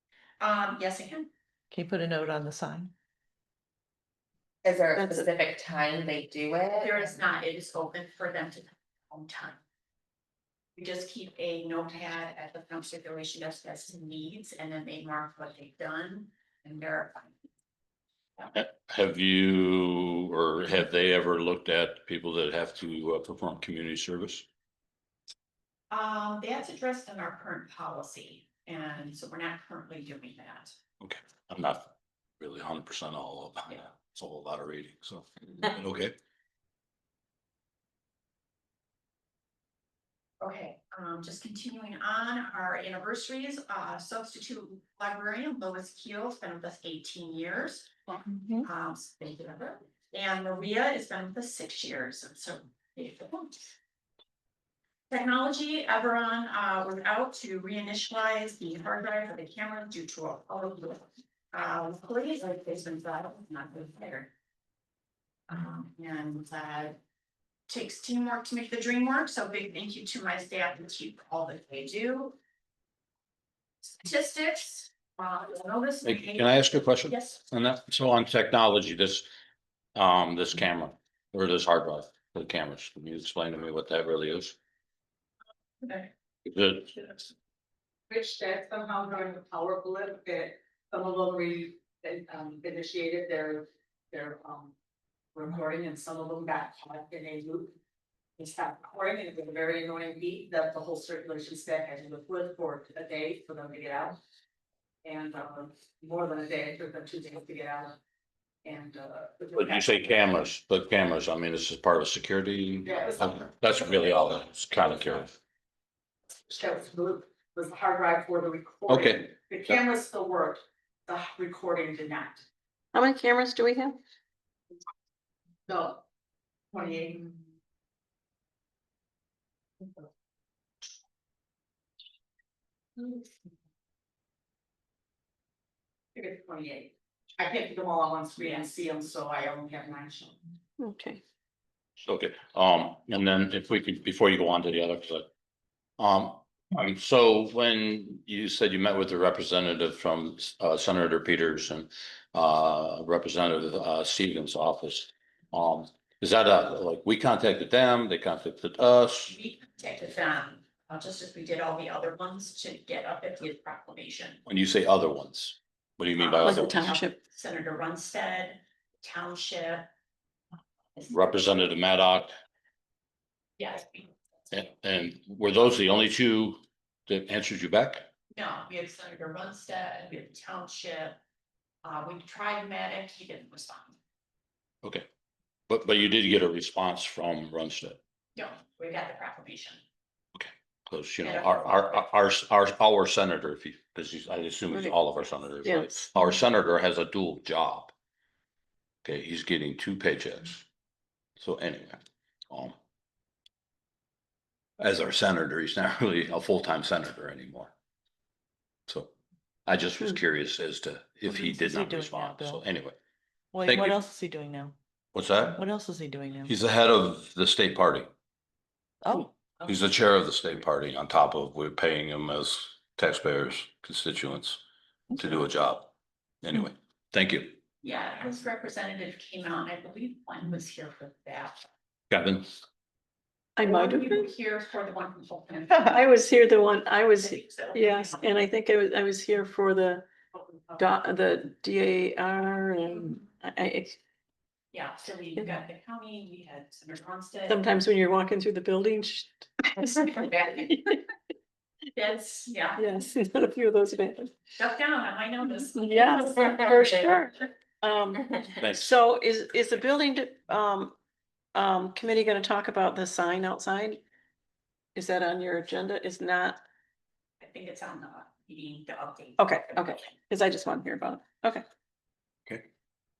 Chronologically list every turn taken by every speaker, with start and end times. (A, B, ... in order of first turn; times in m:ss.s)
0:00.4-0:01.3 A
0:01.7-0:02.9 B
0:04.6-0:07.0 C
0:04.9-0:05.3 D
0:06.8-0:09.6 A
0:10.8-0:17.4 A
0:18.5-0:24.4 E
0:25.9-0:30.8 A
0:31.0-0:31.9 E
0:32.4-0:36.1 E
0:40.4-0:53.7 A
0:55.1-1:04.3 A
1:05.5-1:07.0 A
1:07.7-1:12.4 A
1:13.8-1:17.4 A
1:16.0-1:19.3 E
1:19.9-1:24.6 E
1:25.8-1:26.1 A
1:26.4-1:27.1 E
1:28.1-1:34.7 F
1:35.3-1:37.7 F
1:38.4-1:44.2 F
1:45.0-1:48.0 F
1:48.6-1:50.0 F
1:49.6-1:55.4 E
1:52.8-1:53.5 F
1:56.5-2:02.4 F
1:58.9-1:59.3 E
2:02.9-2:04.0 D
2:05.7-2:06.0 F
2:06.7-2:07.4 F
2:16.1-2:20.4 F
2:20.8-2:21.2 D
2:22.0-2:25.3 E
2:26.0-2:39.3 E
2:39.3-2:44.4 A
2:44.4-2:47.0 E
2:46.2-2:49.9 A
2:46.4-2:47.2 D
2:51.0-2:52.3 E
2:53.6-2:54.1 A
2:54.5-2:58.0 E
2:58.3-3:01.2 A
3:01.8-3:04.0 A
3:05.7-3:08.0 E
3:08.4-3:09.8 A
3:10.3-3:17.9 E
3:11.2-3:12.0 A
3:15.6-3:16.1 D
3:19.0-3:20.6 E
3:21.4-3:22.0 E
3:24.8-3:27.7 E
3:29.6-3:33.0 E
3:31.3-3:32.6 B
3:33.5-3:34.8 B
3:33.6-3:34.0 E
3:35.1-3:35.6 E
3:35.5-3:36.5 B
3:36.4-3:38.1 E
3:39.0-3:39.3 B
3:39.6-3:44.6 E
3:45.2-3:47.6 E
3:47.8-3:51.6 A
3:52.1-3:52.5 E
3:53.6-3:54.3 D
3:53.6-3:56.3 A
3:55.7-4:00.0 D
3:57.2-3:58.3 A
4:00.3-4:00.8 F
4:00.8-4:04.0 D
4:04.7-4:07.6 A
4:07.5-4:11.0 D
4:11.9-4:12.8 A
4:12.8-4:14.3 D
4:14.6-4:17.1 A
4:15.7-4:20.9 D
4:18.6-4:18.9 E
4:21.5-4:24.0 D
4:24.9-4:26.6 D
4:27.4-4:30.1 A
4:29.4-4:31.6 D